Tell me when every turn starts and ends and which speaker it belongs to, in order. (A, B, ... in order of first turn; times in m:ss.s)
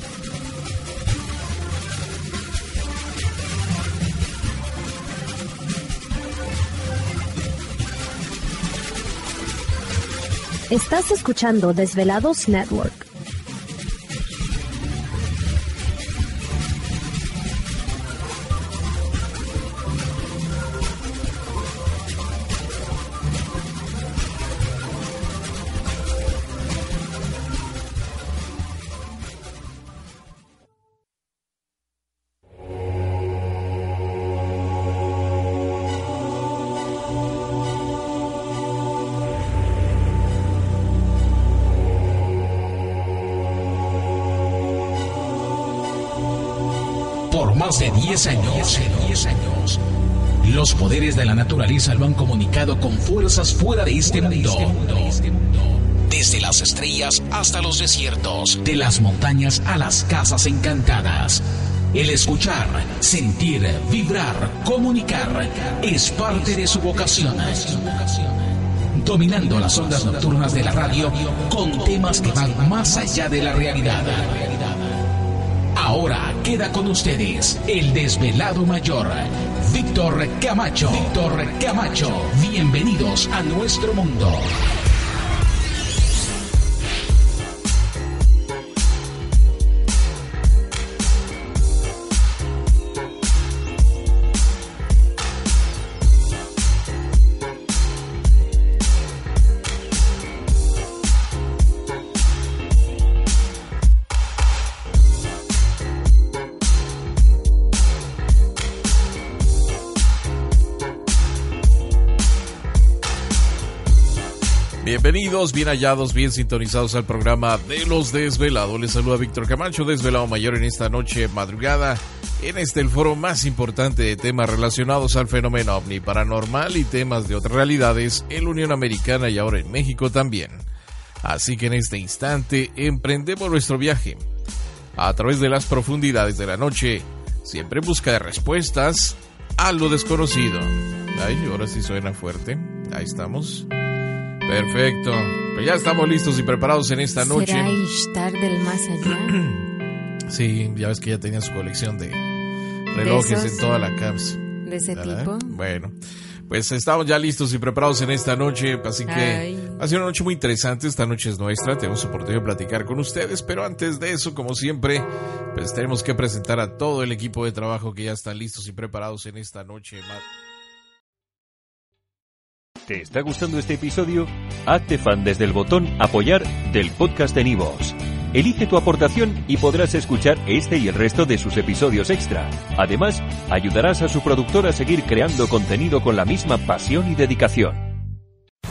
0:10.7-0:13.1 A
0:47.3-0:49.8 B
0:50.4-1:08.3 B
1:08.9-1:14.9 B
1:15.8-1:24.5 B
1:54.8-2:10.7 C
2:11.2-2:14.2 C
2:15.0-2:23.7 C
2:24.5-2:27.8 C
2:27.2-2:29.4 D
2:29.1-2:29.6 C
2:30.3-2:32.2 C
2:32.9-2:36.0 C
2:32.9-2:33.7 D
2:34.6-2:35.6 D
2:36.5-2:50.2 C
2:39.1-2:39.8 D
2:52.9-3:07.8 E